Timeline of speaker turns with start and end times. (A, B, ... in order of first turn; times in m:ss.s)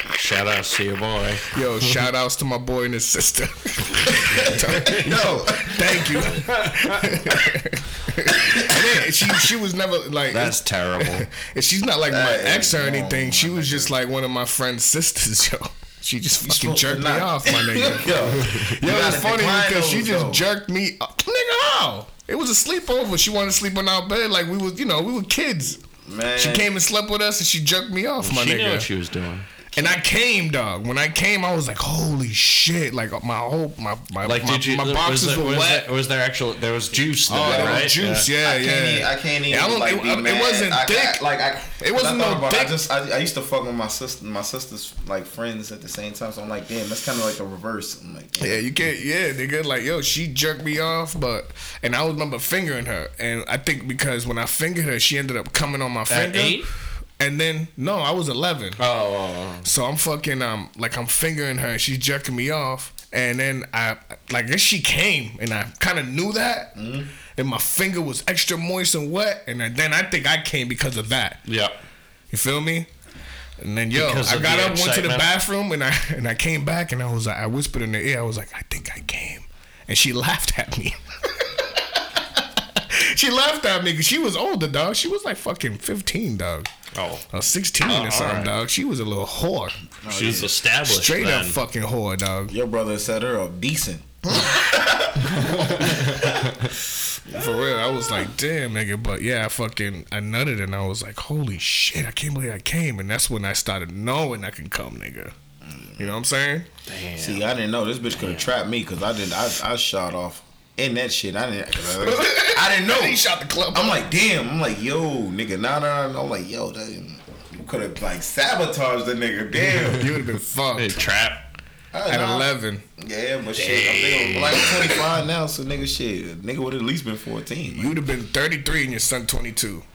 0:00.1-0:01.9 A
0:01.5-0:25.8 B
0:04.2-0:06.3 C
0:04.8-0:05.0 A
0:06.3-0:07.1 A
0:08.4-0:08.8 C
0:10.3-0:11.3 A
0:12.1-0:13.9 C
0:16.4-0:20.5 C
0:26.0-0:26.7 C
0:26.4-0:28.9 B
0:28.2-0:29.5 A
0:29.7-0:30.0 C
0:29.8-0:35.9 B
0:34.2-0:38.3 A
0:37.3-0:42.8 B
0:37.4-0:48.7 C
0:48.4-0:58.8 B
0:56.1-0:56.7 A
0:58.8-0:59.7 A
0:59.6-1:06.8 B
1:06.8-1:07.1 C
1:07.4-1:11.5 B
1:11.5-1:11.8 A
1:12.3-1:12.9 B
1:13.6-1:26.7 B
1:13.9-1:15.3 A
1:26.9-1:27.3 A
1:27.3-1:29.8 B
1:27.8-1:28.5 A
1:30.0-1:30.5 C
1:30.1-1:31.6 A
1:30.8-1:32.5 B
1:32.5-1:36.5 C
1:35.2-1:36.4 A
1:35.8-1:36.1 B
1:37.3-1:38.0 C
1:37.3-1:45.4 B
1:45.6-1:46.1 C
1:46.0-1:46.7 B
1:46.9-1:47.5 A
1:47.2-1:53.2 C
1:48.2-1:48.5 A
1:51.8-1:54.1 B
1:53.7-2:00.1 C
1:59.9-2:01.0 B
2:00.8-2:01.5 A
2:01.9-2:08.0 C
2:02.1-2:02.8 B
2:03.6-2:05.1 A
2:07.7-2:09.9 B